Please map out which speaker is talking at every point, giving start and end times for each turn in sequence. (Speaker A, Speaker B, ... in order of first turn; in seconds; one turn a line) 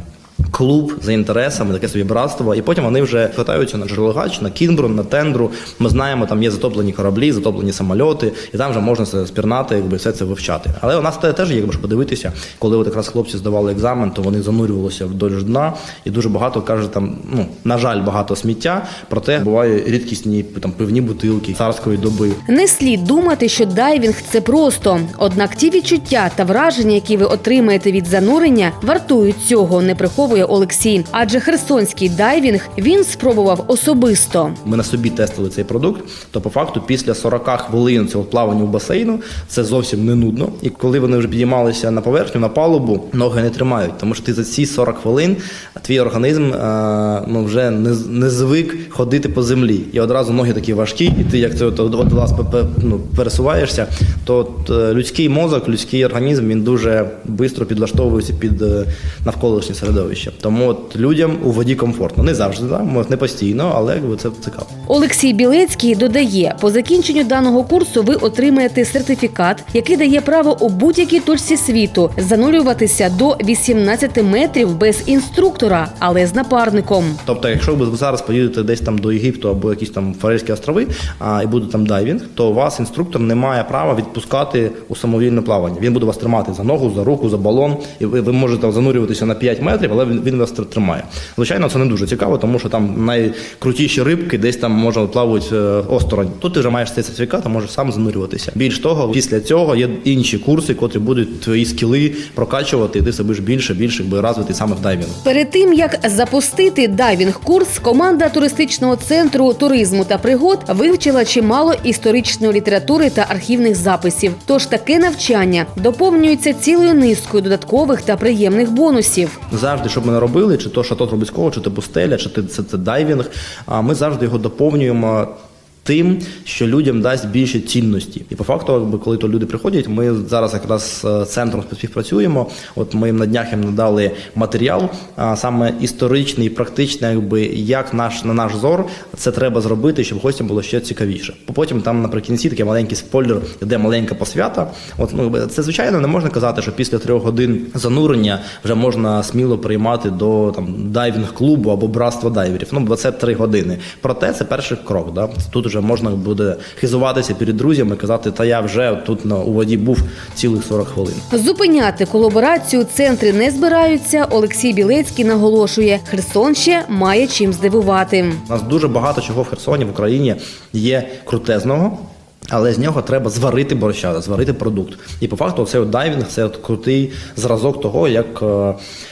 Speaker A: 0.5-22.4
Speaker B: 22.5-34.6
Speaker A: 34.6-64.7
Speaker B: 64.9-77.2
Speaker A: 77.2-105.2
Speaker B: 105.2-119.4
Speaker A: 119.5-125.3
Speaker A: 125.8-161.2
Speaker B: 161.3-168.4
Speaker A: 168.5-172.0
Speaker A: 172.5-178.8